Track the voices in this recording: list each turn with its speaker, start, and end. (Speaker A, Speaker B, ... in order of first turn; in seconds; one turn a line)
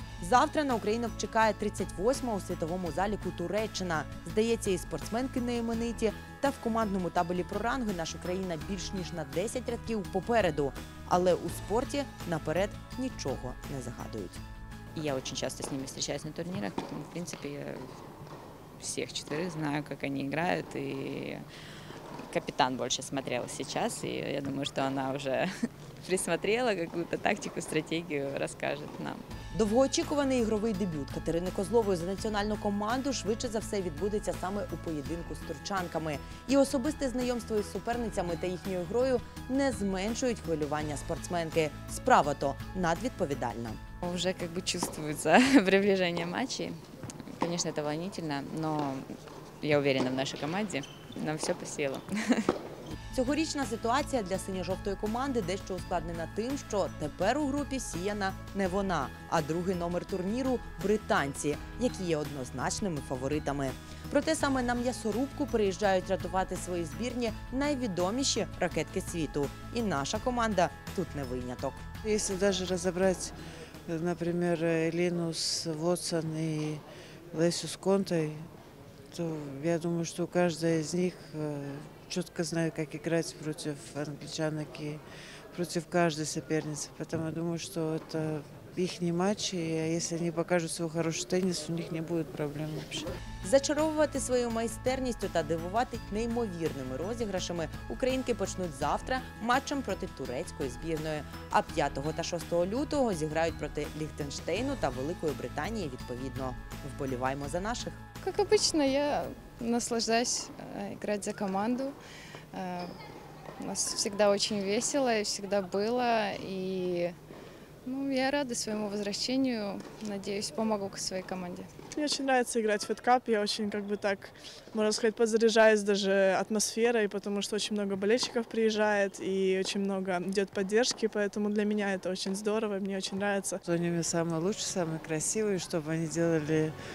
Speaker A: 0.2-14.4
Speaker B: 14.9-17.9
Speaker B: 18.8-21.4
Speaker B: 22.3-25.5
Speaker B: 26.0-29.2
Speaker A: 29.5-43.8
Speaker B: 44.0-46.8
Speaker B: 47.4-49.1
Speaker B: 49.6-52.4
Speaker A: 53.1-71.8
Speaker C: 72.0-73.3
Speaker C: 73.9-78.5
Speaker C: 79.1-93.1
Speaker A: 93.4-108.0
Speaker D: 108.2-112.0
Speaker D: 112.5-112.9
Speaker D: 113.6-117.2
Speaker D: 117.9-121.7
Speaker E: 121.9-133.6
Speaker C: 133.7-136.7